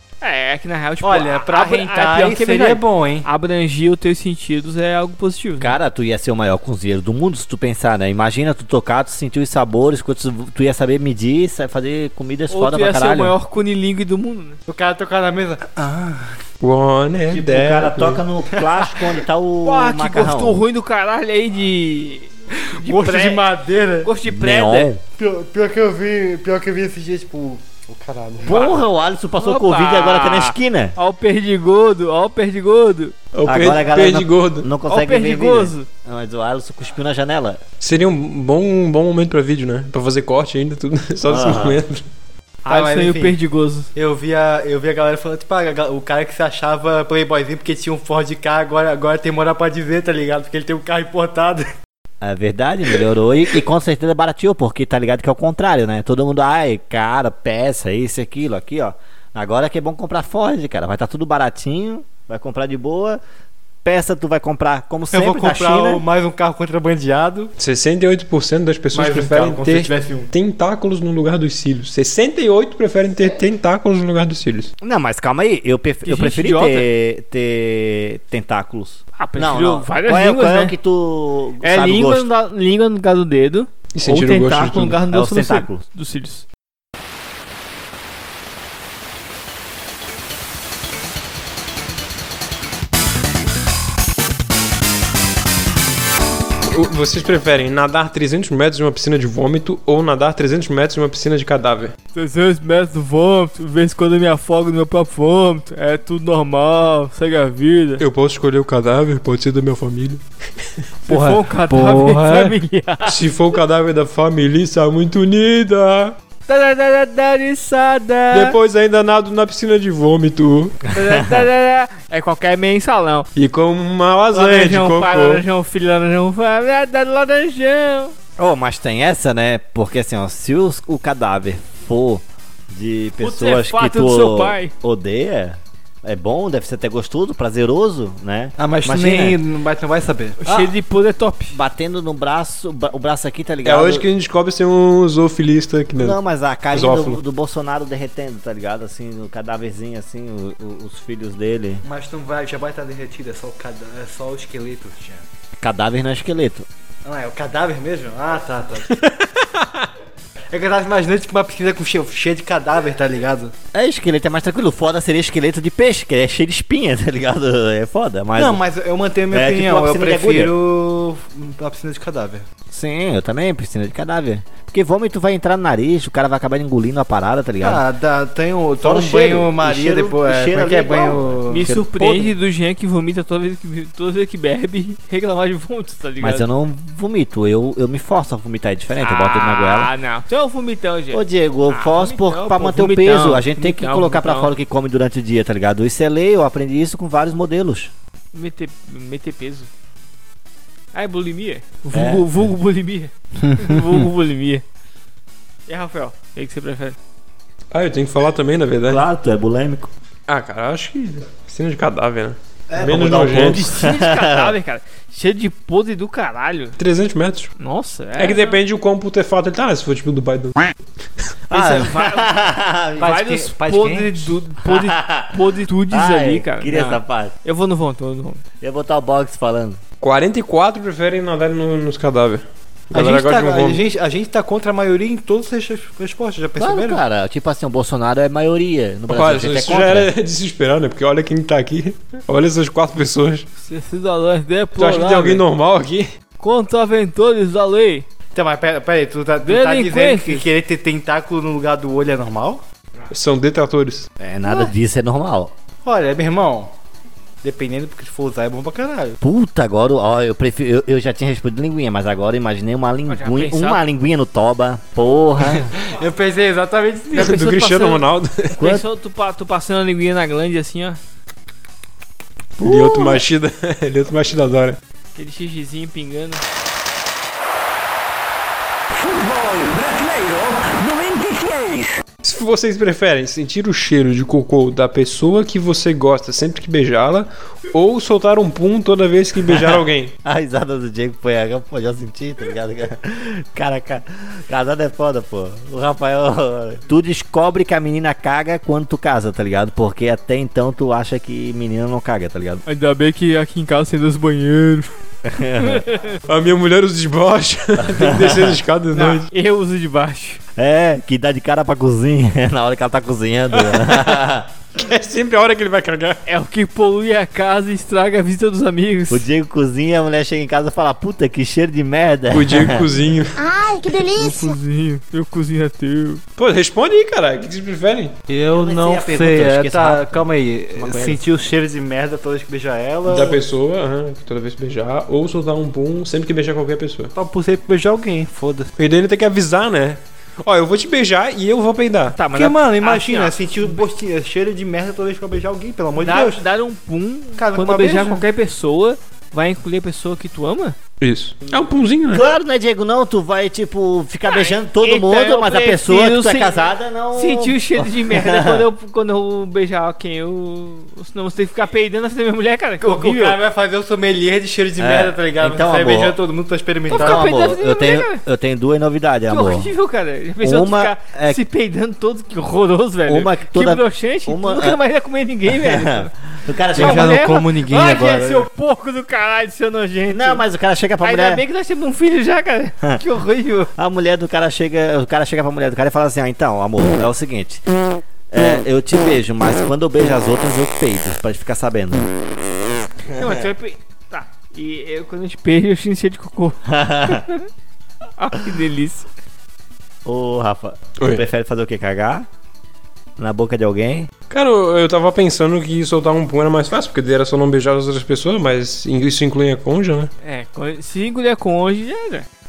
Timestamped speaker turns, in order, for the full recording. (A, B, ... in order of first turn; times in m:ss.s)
0:00.2-0:05.8 A
0:01.0-0:03.3 B
0:05.6-0:13.3 C
0:12.5-0:14.6 A
0:14.7-0:16.4 B
0:16.6-0:18.2 D
0:17.3-0:20.6 C
0:18.5-0:19.2 B
0:19.6-0:23.4 A
0:22.8-0:24.1 B
0:24.0-0:24.9 A
0:24.2-0:25.0 C
0:25.2-0:28.7 B
0:28.4-0:30.9 C
0:28.5-0:28.8 A
0:29.4-0:33.1 A
0:33.3-0:34.7 D
0:33.5-0:37.6 C
0:34.9-0:35.8 A
0:37.8-0:42.0 D
0:41.2-0:41.8 C
0:42.6-0:43.4 B
0:42.6-0:43.9 A
0:43.9-0:51.7 B
0:52.2-1:03.2 C
1:03.8-1:06.0 C
1:05.1-1:07.5 B
1:07.6-1:14.7 D
1:08.9-1:10.3 B
1:14.8-1:22.3 C
1:16.0-1:16.9 A
1:19.2-1:20.7 A
1:21.6-1:26.4 A
1:23.9-1:25.0 D
1:25.1-1:25.8 C
1:36.7-1:41.9 D
1:42.1-1:48.0 A
1:48.0-1:50.2 D
1:51.0-1:53.2 A
1:51.1-1:56.2 D
1:56.5-1:58.6 A
1:58.3-2:00.8 D
2:00.9-2:03.3 A
2:01.0-2:01.4 C
2:03.4-2:05.4 D
2:04.3-2:08.1 A
2:08.4-2:19.4 C
2:13.2-2:14.7 A
2:18.6-2:20.7 B
2:20.4-2:21.6 A
2:21.5-2:24.0 C
2:23.6-2:26.2 D
2:26.0-2:31.8 C
2:26.7-2:27.2 D
2:31.8-2:35.2 B
2:35.6-2:36.7 C
2:37.0-2:38.9 B
2:38.9-2:39.9 D
2:40.5-2:43.5 B
2:43.7-2:48.6 C
2:48.3-2:52.4 B
2:49.3-2:50.5 C
2:52.7-2:57.8 C
2:57.6-3:02.3 B
2:58.8-3:01.9 C
3:01.5-3:06.5 A
3:06.2-3:09.9 C
3:09.0-3:14.5 A
3:11.1-3:17.9 C
3:18.3-3:19.7 A
3:20.9-3:24.6 A
3:21.9-3:22.2 C
3:23.4-3:24.1 B
3:25.7-3:27.0 A
3:27.7-3:29.0 D
3:28.9-3:29.9 C
3:30.3-3:33.7 D
3:32.7-3:34.5 C
3:33.2-3:36.8 A
3:36.8-3:37.5 D
3:37.6-3:38.6 A
3:38.2-3:40.6 D
3:41.5-3:43.1 C
3:41.5-3:42.3 A
3:41.5-3:42.0 B
3:43.0-3:44.4 B
3:43.0-3:48.4 A
3:44.6-3:45.4 C
3:45.9-3:47.3 C
3:48.6-3:49.8 C
3:50.0-3:53.8 D
3:52.9-3:57.0 B
3:56.6-4:00.1 C
3:59.1-4:03.5 D
4:03.6-4:05.4 A
4:04.8-4:06.1 D
4:06.4-4:08.0 A
4:08.3-4:12.6 B
4:09.4-4:10.4 A
4:13.1-4:14.1 D
4:14.2-4:15.5 C
4:15.8-4:16.7 B
4:17.4-4:19.2 B
4:19.2-4:25.7 C
4:23.1-4:23.8 A
4:25.4-4:27.4 B
4:27.1-4:28.6 D
4:27.1-4:28.0 A
4:28.6-4:31.0 A
4:28.6-4:28.8 C
4:32.6-4:33.2 C
4:32.6-4:34.8 D
4:35.2-4:36.4 A
4:39.0-4:41.9 E
4:42.2-4:50.1 D
4:49.5-5:02.6 C
5:02.6-5:04.9 A
5:05.2-5:05.8 C
5:05.6-5:06.2 A
5:06.3-5:09.3 D
5:07.8-5:08.6 C
5:09.3-5:10.4 A
5:10.6-5:14.5 C
5:13.5-5:14.2 D
5:14.7-5:16.2 D
5:16.3-5:19.3 A
5:19.1-5:22.8 C
5:22.3-5:23.5 D
5:23.4-5:24.6 E
5:24.0-5:26.2 A
5:26.4-5:28.1 D
5:28.3-5:33.4 B
5:28.5-5:30.2 C
5:30.8-5:31.2 C
5:33.1-5:37.1 D
5:37.1-5:38.7 B
5:38.8-5:42.2 D
5:42.2-5:43.8 A
5:42.3-5:46.4 B
5:46.0-5:50.8 A
5:47.4-5:48.2 B
5:51.0-5:52.2 D
5:52.1-5:58.6 C
5:54.2-6:03.4 A
6:02.8-6:07.5 B
6:04.8-6:06.2 C
6:06.9-6:08.2 A
6:06.9-6:09.7 C
6:09.3-6:16.1 A
6:10.4-6:11.4 C
6:13.1-6:14.8 C
6:15.5-6:17.2 C
6:16.7-6:20.4 A
6:16.7-6:18.5 B
6:20.1-6:21.4 C
6:21.0-6:23.7 A
6:23.8-6:27.6 C
6:28.3-6:32.4 C
6:33.1-6:33.5 C
6:33.2-6:37.4 A
6:36.7-6:37.2 C
6:38.2-6:39.1 A
6:40.0-6:42.3 C
6:41.0-6:41.2 D
6:43.2-6:44.1 C
6:44.3-6:50.1 D
6:50.2-6:52.2 A